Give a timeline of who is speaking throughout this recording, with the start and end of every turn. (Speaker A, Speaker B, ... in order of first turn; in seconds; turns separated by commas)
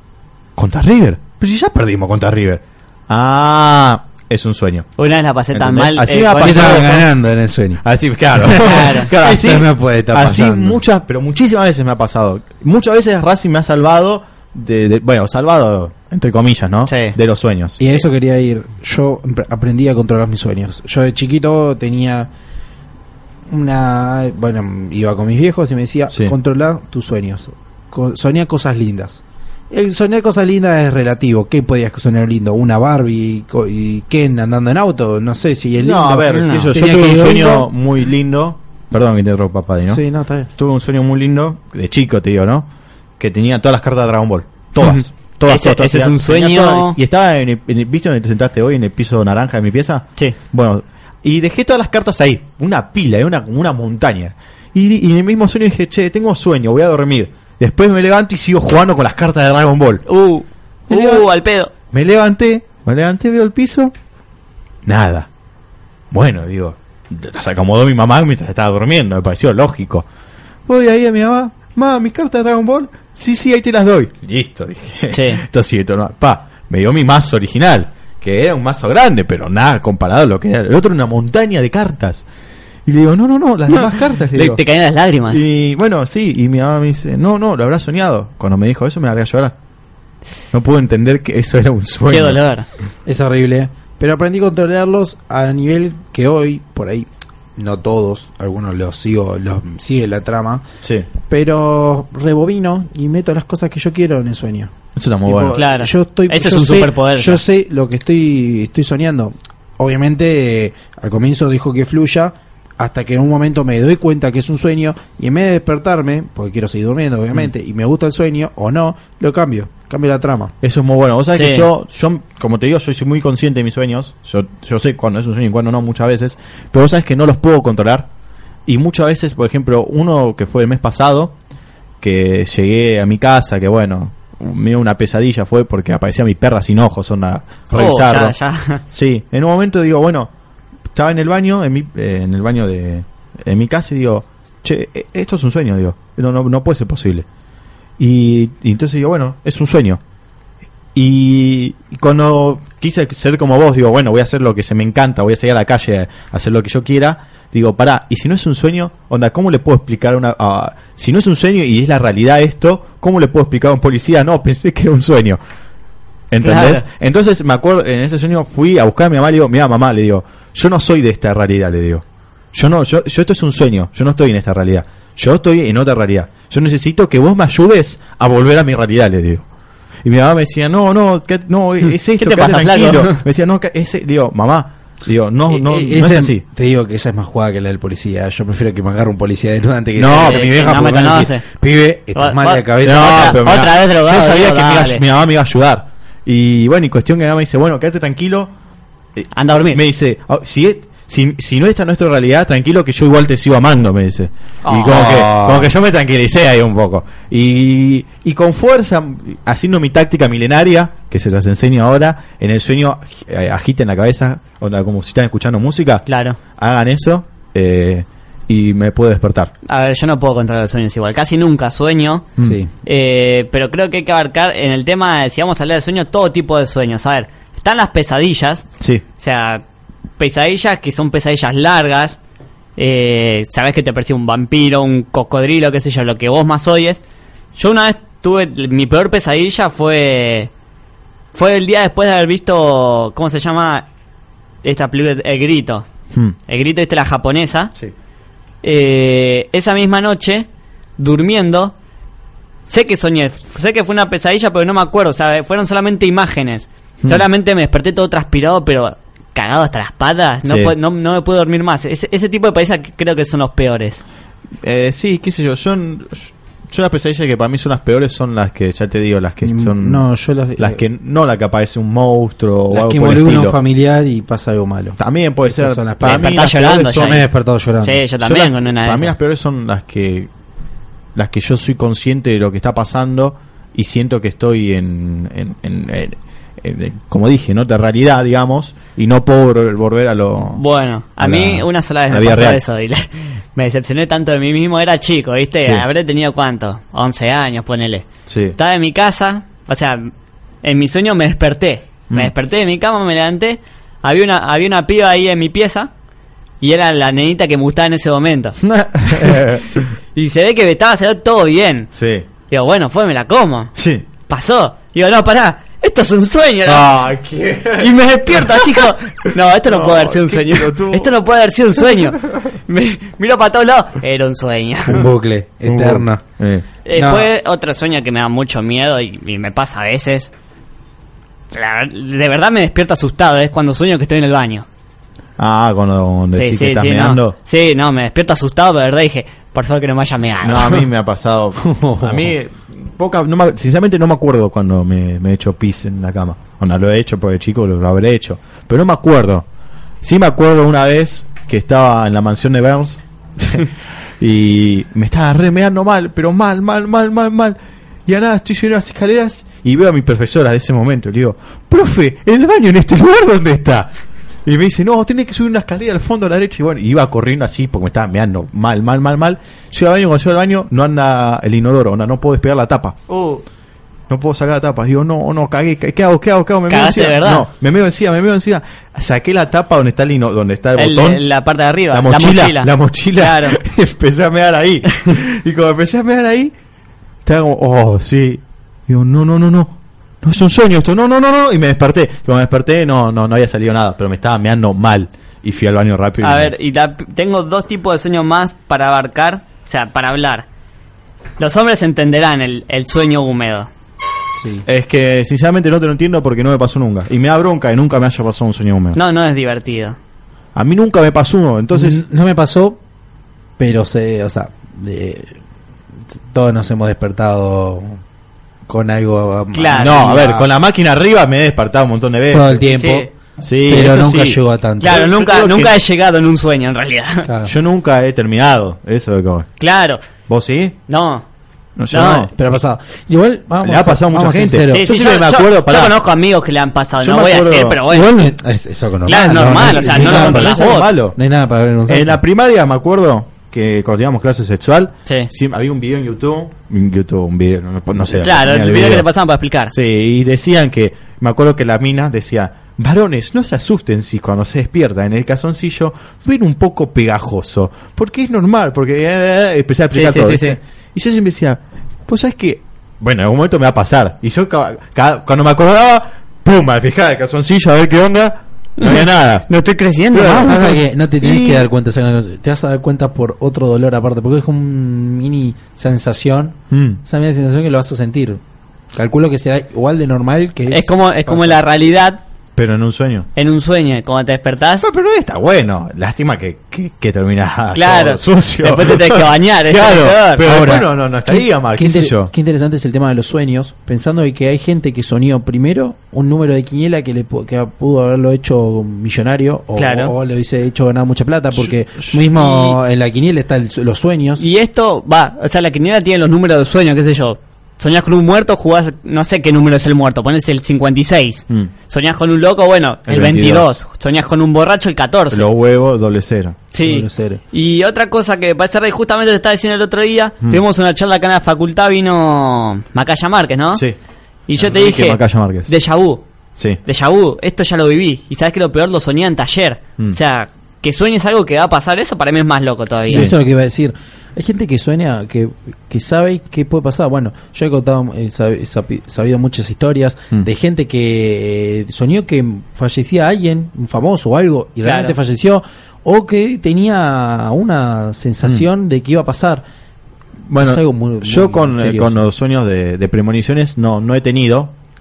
Speaker A: 0.6-4.9, Speaker B: 5.0-7.0, Speaker A: 5.5-7.1, Speaker C: 6.4-7.8, Speaker A: 7.8-17.8, Speaker C: 8.3-10.8, Speaker B: 8.6-9.1, Speaker B: 16.9-17.1, Speaker C: 17.8-22.3, Speaker C: 23.5-37.7, Speaker A: 35.8-40.0, Speaker B: 36.3-36.7, Speaker C: 39.9-40.5, Speaker A: 40.5-42.7, Speaker A: 43.2-60.0, Speaker B: 44.8-47.0, Speaker B: 60.1-61.7, Speaker A: 60.9-61.2, Speaker A: 61.9-63.9, Speaker A: 64.8-65.3, Speaker A: 66.1-70.0, Speaker A: 70.7-82.2, Speaker B: 75.1-75.4, Speaker A: 82.8-84.6, Speaker B: 83.7-85.4, Speaker A: 85.3-89.5, Speaker A: 90.5-92.4, Speaker B: 92.1-92.7, Speaker C: 93.0-100.6, Speaker A: 100.8-101.1, Speaker C: 101.3-104.7, Speaker A: 105.0-105.6, Speaker C: 105.2-120.5, Speaker B: 105.5-107.4, Speaker A: 120.6-128.1, Speaker B: 121.3-121.7, Speaker A: 128.7-131.3, Speaker A: 132.0-138.3, Speaker B: 137.7-138.8, Speaker A: 138.9-140.3, Speaker A: 140.9-147.2, Speaker A: 148.0-150.0, Speaker A: 150.9-165.4, Speaker A: 166.3-179.4, Speaker B: 166.4-166.8, Speaker A: 180.0-186.4, Speaker B: 182.2-183.2, Speaker C: 185.5-193.4, Speaker A: 190.0-190.8, Speaker B: 190.0-191.4, Speaker B: 192.1-195.0, Speaker A: 192.8-198.5, Speaker A: 199.2-216.0, Speaker B: 199.3-199.8, Speaker B: 204.6-205.3, Speaker C: 204.8-205.7, Speaker B: 216.1-216.4, Speaker A: 216.6-219.5, Speaker B: 219.7-222.3, Speaker C: 222.4-222.7, Speaker B: 222.8-228.7, Speaker B: 229.2-229.6, Speaker B: 230.2-232.2, Speaker B: 232.8-237.0, Speaker B: 237.6-240.5, Speaker B: 241.3-243.8, Speaker B: 244.6-245.8, Speaker B: 246.5-247.7, Speaker B: 248.6-250.5, Speaker B: 251.0-251.7, Speaker B: 252.7-264.0, Speaker A: 260.4-260.7, Speaker A: 264.6-270.0, Speaker C: 269.4-270.8, Speaker A: 270.6-273.6, Speaker C: 272.7-276.4, Speaker A: 275.0-277.2, Speaker B: 276.0-277.3, Speaker C: 276.9-278.0, Speaker B: 277.8-279.1, Speaker A: 278.2-280.3, Speaker A: 281.1-290.6, Speaker B: 290.5-300.1, Speaker A: 291.2-292.6, Speaker A: 295.6-295.9, Speaker A: 298.3-298.6, Speaker B: 300.6-305.9, Speaker B: 306.6-309.4, Speaker A: 308.6-309.9, Speaker B: 310.1-311.9, Speaker A: 311.9-312.3, Speaker B: 312.5-313.7, Speaker A: 313.8-314.1, Speaker B: 314.3-316.9, Speaker A: 316.6-321.1, Speaker B: 317.8-325.1, Speaker C: 324.9-326.2, Speaker A: 325.6-326.7, Speaker B: 326.8-330.3, Speaker C: 326.9-327.3, Speaker B: 331.5-334.6, Speaker A: 335.4-337.3, Speaker B: 336.3-340.9, Speaker A: 340.4-349.4, Speaker C: 341.6-342.3, Speaker A: 350.0-353.7, Speaker A: 354.2-363.9, Speaker A: 364.4-373.0, Speaker B: 373.1-373.4, Speaker A: 374.1-381.2, Speaker B: 376.7-377.5, Speaker B: 380.8-383.6, Speaker A: 381.9-386.5, Speaker A: 387.2-396.5, Speaker B: 396.2-400.4, Speaker B: 401.4-403.7, Speaker C: 404.4-404.6, Speaker A: 404.6-409.0, Speaker B: 408.9-410.0, Speaker A: 410.5-412.0, Speaker C: 411.7-412.8, Speaker C: 413.6-415.4, Speaker C: 416.3-418.0, Speaker C: 418.7-420.5, Speaker B: 419.5-420.3, Speaker A: 419.8-422.7, Speaker C: 422.3-423.1, Speaker B: 422.7-423.1, Speaker A: 423.4-425.8, Speaker C: 423.6-425.0, Speaker B: 424.8-427.3, Speaker C: 427.2-427.5, Speaker A: 427.4-429.5, Speaker B: 429.6-430.0, Speaker A: 430.3-430.8, Speaker B: 430.9-431.2, Speaker A: 431.8-432.3, Speaker B: 431.9-432.3, Speaker C: 432.3-434.9, Speaker A: 433.6-436.0, Speaker B: 434.7-438.1, Speaker A: 437.0-437.8, Speaker C: 437.9-442.2, Speaker B: 439.1-441.0, Speaker A: 439.5-441.2, Speaker A: 441.9-449.1, Speaker B: 448.2-449.7, Speaker A: 449.7-469.5, Speaker B: 459.9-460.6, Speaker B: 468.8-470.7, Speaker A: 470.1-471.7, Speaker C: 470.4-478.4, Speaker A: 476.7-477.0, Speaker C: 478.9-481.6, Speaker B: 480.7-482.2, Speaker A: 482.6-483.3, Speaker B: 483.4-484.9, Speaker A: 484.8-492.3, Speaker B: 487.7-490.8, Speaker C: 490.4-504.4, Speaker B: 499.8-500.1, Speaker B: 502.3-502.8, Speaker B: 504.4-515.4, Speaker A: 513.1-513.7, Speaker A: 515.3-516.6, Speaker B: 516.7-523.8, Speaker C: 516.8-517.4, Speaker B: 524.5-526.2, Speaker A: 524.6-525.7, Speaker B: 526.9-533.3, Speaker A: 533.1-533.4, Speaker C: 533.1-549.6, Speaker B: 544.8-545.1, Speaker A: 550.5-554.7, Speaker C: 550.6-552.2